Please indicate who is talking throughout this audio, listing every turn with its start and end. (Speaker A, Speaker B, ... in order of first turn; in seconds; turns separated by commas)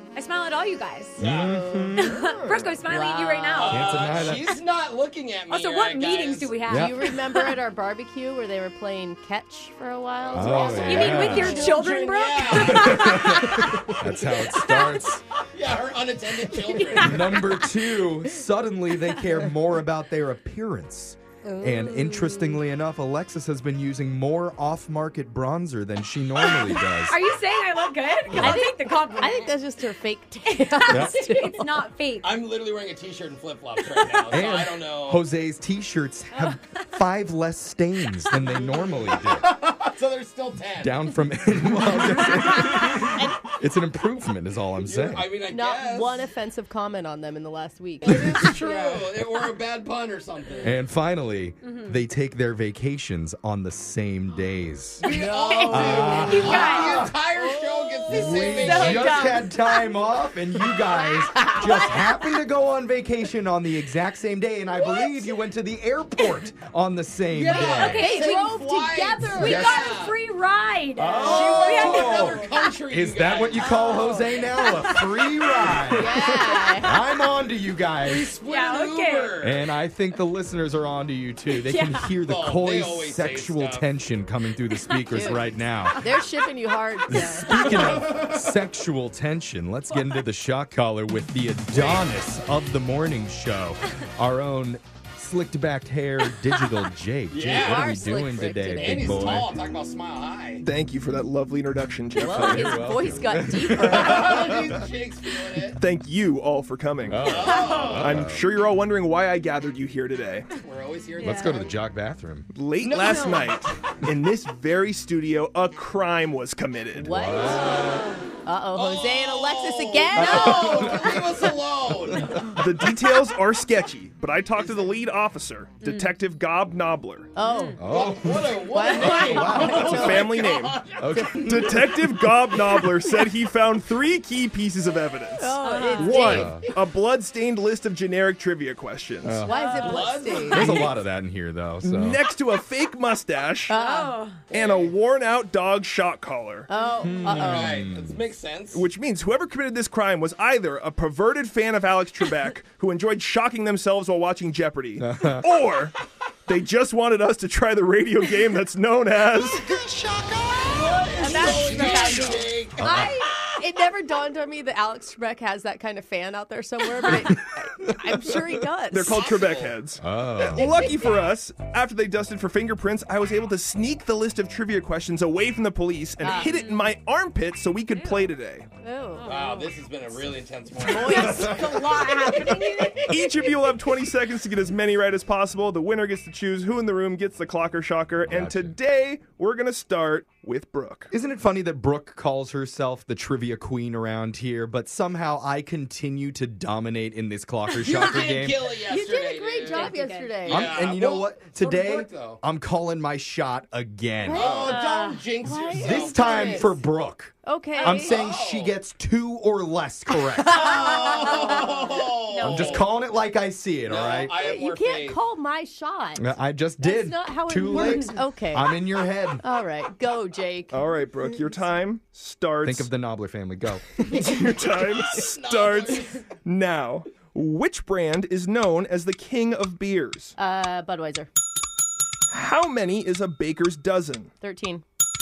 Speaker A: 0.1-1.2, Speaker B: 1.2-2.3, Speaker C: 1.2-2.0, Speaker A: 2.0-4.0, Speaker D: 2.8-3.9, Speaker C: 3.6-6.6, Speaker B: 3.7-4.6, Speaker A: 5.5-7.5, Speaker B: 6.7-7.1, Speaker D: 6.7-11.8, Speaker C: 10.2-14.1, Speaker B: 10.3-11.6, Speaker A: 10.8-13.9, Speaker B: 12.5-15.2, Speaker C: 15.5-17.4, Speaker D: 16.6-17.1, Speaker A: 16.8-17.5, Speaker B: 17.0-27.3, Speaker D: 21.4-22.0, Speaker A: 21.6-22.4, Speaker A: 27.1-29.6, Speaker B: 28.3-28.6, Speaker D: 28.3-31.8, Speaker A: 30.4-32.4, Speaker B: 30.9-31.2, Speaker C: 32.2-35.2, Speaker A: 33.9-34.3, Speaker B: 34.3-39.4, Speaker A: 36.3-36.6, Speaker C: 39.2-41.0, Speaker B: 40.8-45.3, Speaker D: 43.1-43.4, Speaker C: 44.8-46.2, Speaker D: 45.5-48.8, Speaker C: 48.0-50.7, Speaker B: 50.6-57.1, Speaker A: 51.6-52.0, Speaker C: 55.0-59.4, Speaker D: 55.0-56.8, Speaker A: 55.5-57.1, Speaker D: 57.4-59.3, Speaker B: 58.1-68.1, Speaker A: 58.4-59.5, Speaker D: 60.7-62.0, Speaker C: 67.3-70.1, Speaker A: 67.5-68.5, Speaker D: 67.5-69.8, Speaker A: 69.3-72.8, Speaker B: 69.3-69.9, Speaker B: 71.0-78.3, Speaker C: 71.2-74.3, Speaker A: 73.6-75.6, Speaker D: 75.9-77.0, Speaker C: 78.0-79.6, Speaker A: 78.4-79.4, Speaker B: 79.4-86.0, Speaker A: 81.5-82.1, Speaker C: 82.2-83.8, Speaker A: 84.9-85.3, Speaker D: 85.1-85.4, Speaker D: 86.0-87.5, Speaker B: 87.1-99.5, Speaker C: 87.8-88.3, Speaker C: 91.7-92.1, Speaker C: 97.3-97.9, Speaker D: 97.4-99.4, Speaker C: 98.8-100.6, Speaker E: 100.6-103.0, Speaker D: 102.2-104.5, Speaker B: 102.2-104.8, Speaker C: 103.8-105.8, Speaker E: 105.7-107.3, Speaker B: 107.1-108.5, Speaker C: 107.2-108.2, Speaker A: 107.3-107.9, Speaker E: 108.0-110.5, Speaker C: 110.5-111.7, Speaker A: 111.2-111.6, Speaker B: 111.2-113.4, Speaker E: 112.5-117.1, Speaker D: 117.0-117.8, Speaker B: 117.0-118.0, Speaker A: 117.6-118.2, Speaker D: 118.4-121.1, Speaker C: 118.7-122.5, Speaker B: 120.1-122.6, Speaker E: 122.5-127.3, Speaker A: 125.8-126.1, Speaker D: 127.3-127.8, Speaker A: 127.4-127.8, Speaker B: 127.8-130.2, Speaker C: 127.9-131.3, Speaker D: 128.7-130.3, Speaker E: 129.6-139.4, Speaker B: 131.0-132.1, Speaker D: 135.4-136.7, Speaker A: 135.6-136.4, Speaker B: 136.1-136.7, Speaker B: 139.2-139.5, Speaker D: 139.4-140.8, Speaker A: 139.5-140.1, Speaker C: 139.8-140.9, Speaker B: 140.5-142.2, Speaker E: 141.8-143.7, Speaker D: 143.7-144.1, Speaker A: 143.7-144.4, Speaker C: 144.5-144.9, Speaker E: 144.5-146.7, Speaker D: 146.7-147.8, Speaker B: 147.0-148.2, Speaker C: 147.2-148.8, Speaker E: 148.7-155.9, Speaker B: 155.0-155.5, Speaker E: 156.4-159.7, Speaker C: 160.4-163.1, Speaker A: 161.2-162.5, Speaker D: 161.2-162.1, Speaker B: 162.8-163.1, Speaker D: 162.8-169.2, Speaker B: 167.1-167.9, Speaker E: 168.9-178.7, Speaker C: 169.1-169.7, Speaker B: 170.0-170.8, Speaker D: 176.2-176.9, Speaker A: 177.9-178.3, Speaker D: 178.8-179.3, Speaker A: 179.2-179.7, Speaker C: 179.2-183.2, Speaker D: 180.8-181.7, Speaker A: 180.8-183.3, Speaker E: 183.1-191.1, Speaker B: 188.3-188.7, Speaker B: 191.1-198.7, Speaker C: 197.8-202.4, Speaker D: 198.9-200.7, Speaker A: 199.7-200.4, Speaker B: 200.4-204.7, Speaker D: 204.2-206.8, Speaker C: 204.3-206.7, Speaker A: 204.5-205.2, Speaker B: 205.7-211.0, Speaker D: 207.4-208.1, Speaker C: 207.9-208.7, Speaker C: 210.4-212.8, Speaker D: 210.6-211.6, Speaker D: 212.3-212.6, Speaker B: 212.4-214.3, Speaker C: 213.8-215.2, Speaker D: 214.4-218.7, Speaker B: 216.2-219.4, Speaker D: 219.4-221.3, Speaker E: 220.7-222.9, Speaker B: 222.6-223.9, Speaker E: 224.0-230.3, Speaker C: 224.5-226.3, Speaker D: 230.4-231.3, Speaker E: 232.3-234.3, Speaker D: 234.4-234.8